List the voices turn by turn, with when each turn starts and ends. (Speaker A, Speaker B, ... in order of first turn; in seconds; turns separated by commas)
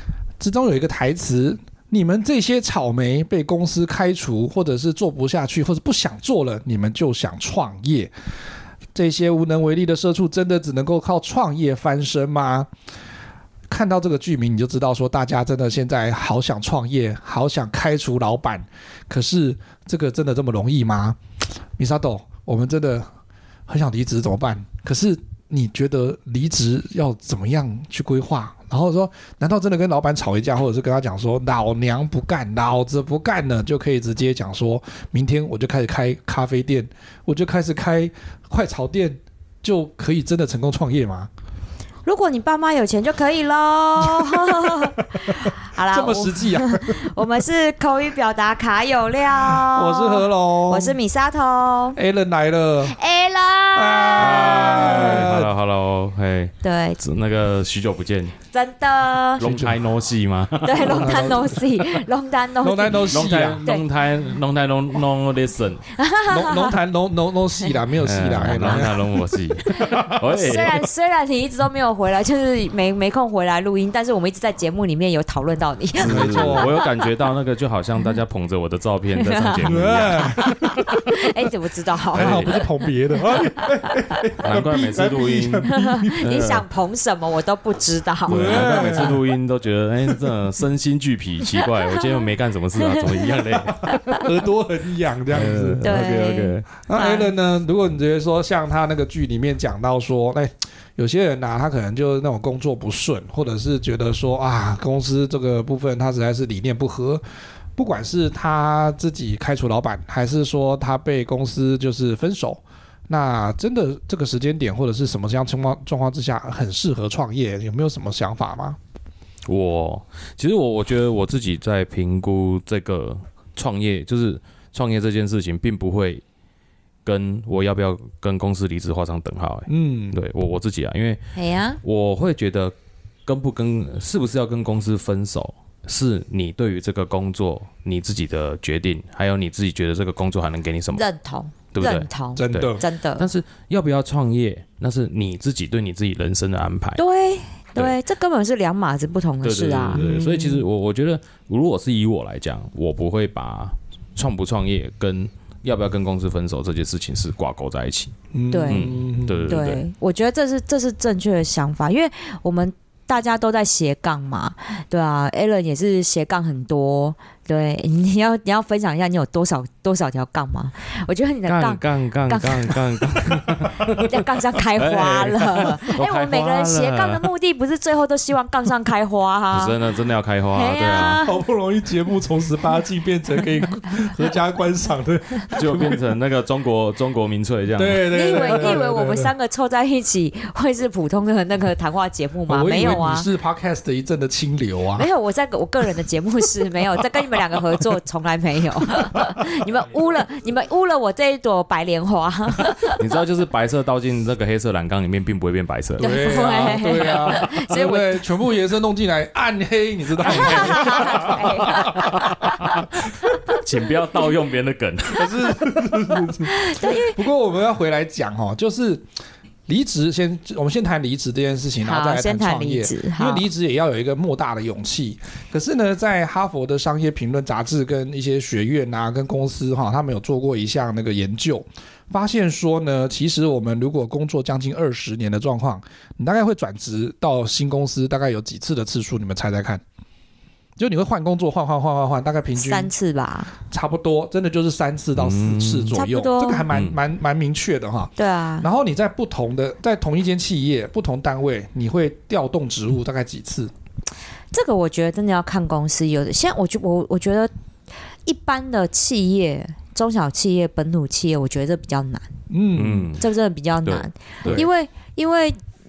Speaker A: 0.4-8.1, Speaker A: 8.9-12.7, Speaker A: 13.7-21.2, Speaker A: 21.8-23.1, Speaker A: 23.7-41.3, Speaker B: 42.1-52.0, Speaker A: 44.0-47.1, Speaker A: 49.4-51.0, Speaker A: 52.0-53.0, Speaker B: 52.8-55.2, Speaker A: 53.7-55.5, Speaker C: 54.2-58.4, Speaker B: 56.6-57.0, Speaker B: 58.5-59.4, Speaker C: 59.4-61.9, Speaker A: 59.4-59.9, Speaker B: 60.6-63.9, Speaker A: 60.8-61.6, Speaker A: 62.6-63.7, Speaker C: 63.0-65.8, Speaker B: 66.0-66.8, Speaker A: 66.3-70.5, Speaker C: 68.0-70.7, Speaker B: 69.8-76.9, Speaker A: 76.0-76.7, Speaker C: 76.0-80.5, Speaker B: 79.2-82.6, Speaker A: 79.7-81.1, Speaker C: 82.1-82.6, Speaker A: 82.1-86.5, Speaker B: 83.3-84.1, Speaker C: 84.4-86.7, Speaker B: 85.7-89.1, Speaker A: 88.3-89.2, Speaker C: 88.3-93.9, Speaker B: 91.6-92.2, Speaker B: 92.8-94.2, Speaker A: 94.2-96.0, Speaker C: 95.3-96.7, Speaker B: 95.8-97.3, Speaker A: 96.8-107.2, Speaker A: 107.8-118.8, Speaker C: 119.5-126.2, Speaker C: 127.0-131.2, Speaker A: 129.7-130.2, Speaker B: 131.3-131.8, Speaker C: 131.8-132.7, Speaker C: 133.3-141.1, Speaker B: 140.9-143.3, Speaker C: 141.7-147.0, Speaker A: 142.4-142.8, Speaker B: 147.0-150.1, Speaker C: 149.4-158.1, Speaker A: 149.9-150.7, Speaker A: 158.3-159.7, Speaker B: 158.5-158.9, Speaker C: 158.7-159.8, Speaker B: 159.5-173.5, Speaker C: 171.5-177.3, Speaker B: 174.0-179.8, Speaker C: 179.5-181.2, Speaker B: 180.5-181.3, Speaker A: 181.1-186.0, Speaker C: 185.6-188.7, Speaker A: 187.8-189.3, Speaker B: 188.1-193.3, Speaker A: 192.5-195.1, Speaker B: 195.0-203.0, Speaker C: 202.9-206.1, Speaker B: 206.0-208.3, Speaker A: 206.0-212.9, Speaker B: 210.2-213.6, Speaker C: 210.3-211.0, Speaker C: 211.9-212.7, Speaker C: 213.5-215.6, Speaker A: 215.1-219.1, Speaker B: 216.4-217.2, Speaker A: 219.7-239.8, Speaker B: 221.8-223.4, Speaker A: 240.8-242.9, Speaker B: 242.6-243.5, Speaker A: 243.7-253.7, Speaker C: 245.2-246.0, Speaker B: 245.9-246.7, Speaker C: 246.7-247.0, Speaker B: 248.2-248.7, Speaker B: 254.5-257.5, Speaker B: 258.3-262.3, Speaker A: 262.5-263.1, Speaker C: 262.8-263.2, Speaker B: 263.2-265.6